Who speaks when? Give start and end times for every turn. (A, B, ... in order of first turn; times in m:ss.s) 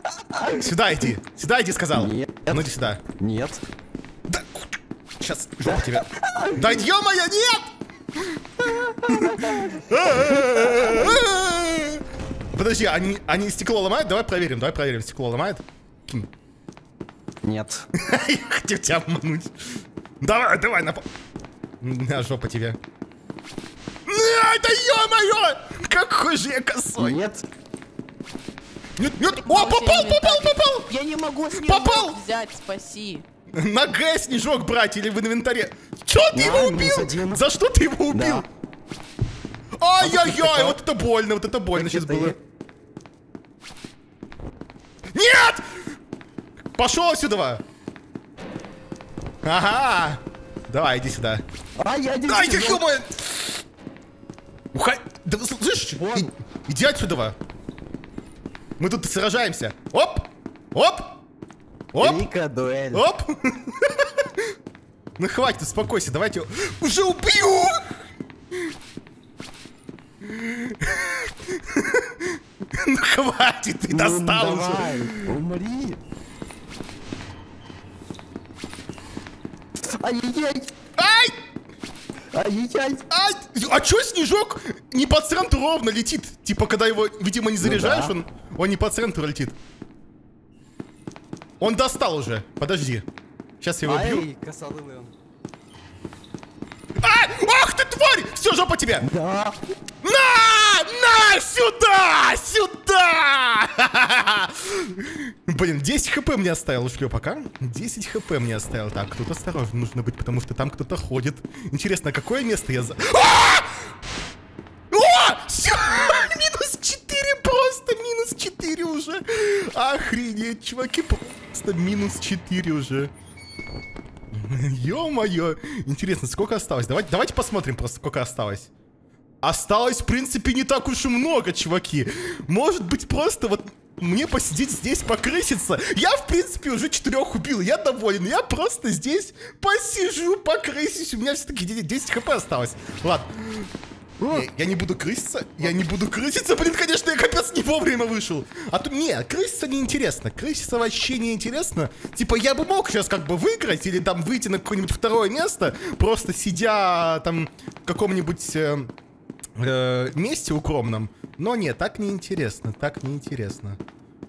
0:00.1-0:00.4 A
0:00.5-0:03.0 B
0:01.9-0:03.6 A
0:04.3-0:12.0 B
0:05.6-0:06.8 A
0:08.8-0:11.2 A
0:12.5-0:16.3 B
0:17.4-0:17.8 A
0:18.0-0:19.5 B
0:20.2-0:21.0 B
0:21.8-0:22.8 B
0:24.0-0:27.2 B
0:27.0-0:27.4 A
0:29.0-0:30.9 B
0:29.3-0:33.2 C
0:31.5-0:32.2 B
0:33.5-0:38.4 B
0:36.3-0:37.4 A
0:38.1-0:38.4 A
0:39.8-0:42.3 B
0:40.0-0:40.8 A
0:41.7-0:42.4 A
0:45.1-0:45.6 B
0:46.8-0:47.6 B
0:49.4-0:51.4 B
0:51.8-0:52.8 A
0:52.3-0:53.6 B
0:54.7-0:57.3 B
0:56.0-0:56.3 A
0:58.8-1:01.2 B
1:01.9-1:02.2 B
1:02.0-1:03.0 A
1:02.9-1:04.4 B
1:05.2-1:08.0 B
1:10.2-1:15.3 B
1:13.9-1:16.0 A
1:19.8-1:20.7 A
1:21.0-1:21.3 B
1:22.3-1:23.0 A
1:23.1-1:29.6 B
1:27.6-1:28.1 A
1:31.6-1:33.0 B
1:33.6-1:34.3 B
1:33.8-1:35.1 A
1:37.0-1:39.1 B
1:39.0-1:39.6 A
1:40.0-1:53.7 B
1:54.9-2:03.1 B
2:04.3-2:08.7 B
2:09.4-2:23.7 B
2:24.2-2:38.9 B
2:39.6-2:43.8 B